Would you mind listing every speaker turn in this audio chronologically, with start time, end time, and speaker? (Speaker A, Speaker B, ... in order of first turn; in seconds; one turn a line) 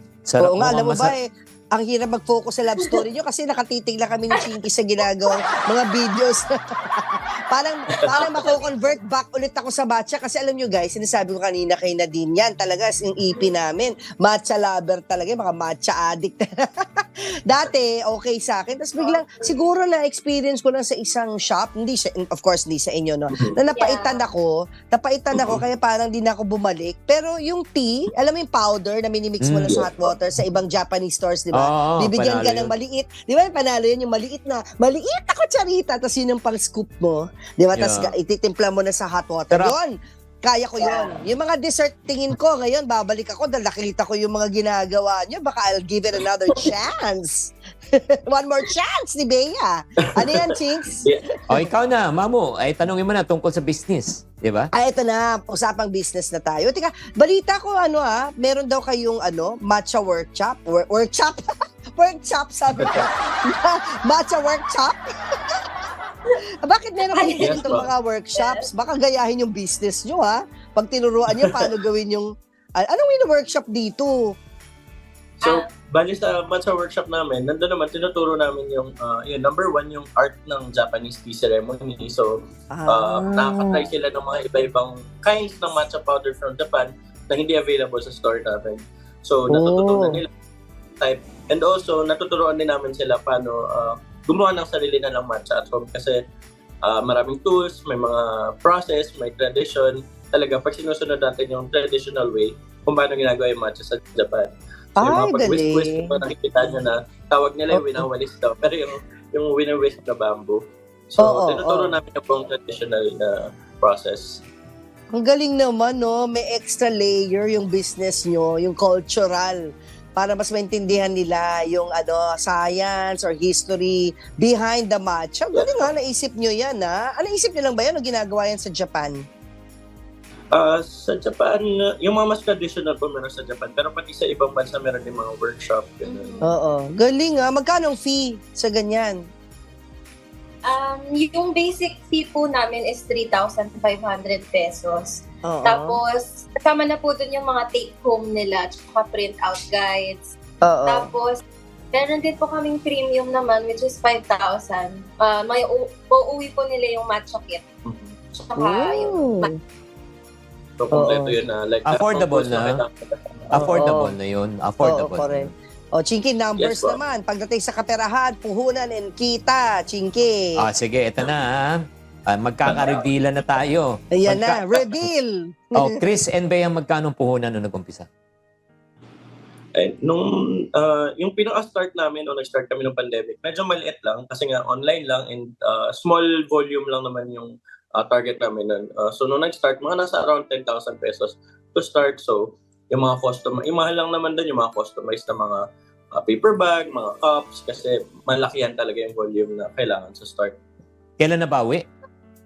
Speaker A: 0.2-1.1
Speaker B: 0.4-39.9
Speaker C: 8.2-8.6
Speaker C: 19.0-19.5
Speaker C: 23.8-24.2
Speaker D: 25.3-25.6
Speaker A: 29.4-29.8
Speaker D: 29.7-30.1
Speaker A: 31.5-32.7
Speaker A: 37.8-38.1
Speaker B: 40.4-51.6
Speaker D: 50.2-50.4
Speaker A: 51.5-54.7
Speaker B: 54.7-61.4
Speaker B: 62.0-65.1
Speaker D: 62.8-63.1
Speaker B: 66.6-74.2
Speaker C: 67.1-67.6
Speaker D: 67.4-67.9
Speaker C: 68.4-68.7
Speaker D: 75.4-90.3
Speaker B: 82.7-83.9
Speaker B: 89.5-90.2
Speaker D: 91.0-96.2
Speaker D: 96.8-114.4
Speaker B: 105.0-106.2
Speaker B: 107.7-108.0
Speaker B: 111.2-112.0
Speaker B: 115.1-119.6
Speaker B: 120.2-129.2
Speaker D: 125.5-125.9
Speaker D: 130.5-136.3
Speaker C: 136.0-136.5
Speaker B: 136.4-139.2
Speaker C: 140.6-150.3
Speaker B: 145.4-146.0
Speaker B: 150.7-151.1
Speaker C: 150.9-151.4
Speaker C: 151.9-157.6
Speaker D: 157.8-158.2
Speaker C: 158.3-159.5
Speaker B: 158.6-159.6
Speaker D: 160.8-163.8
Speaker B: 160.9-161.3
Speaker A: 161.8-162.8
Speaker A: 163.5-165.5
Speaker B: 163.5-164.1
Speaker B: 164.8-170.3
Speaker D: 166.6-167.0
Speaker A: 170.6-175.1
Speaker D: 172.7-173.0
Speaker B: 174.1-175.9
Speaker A: 175.7-178.1
Speaker D: 179.8-195.6
Speaker D: 196.1-200.6
Speaker A: 201.2-201.8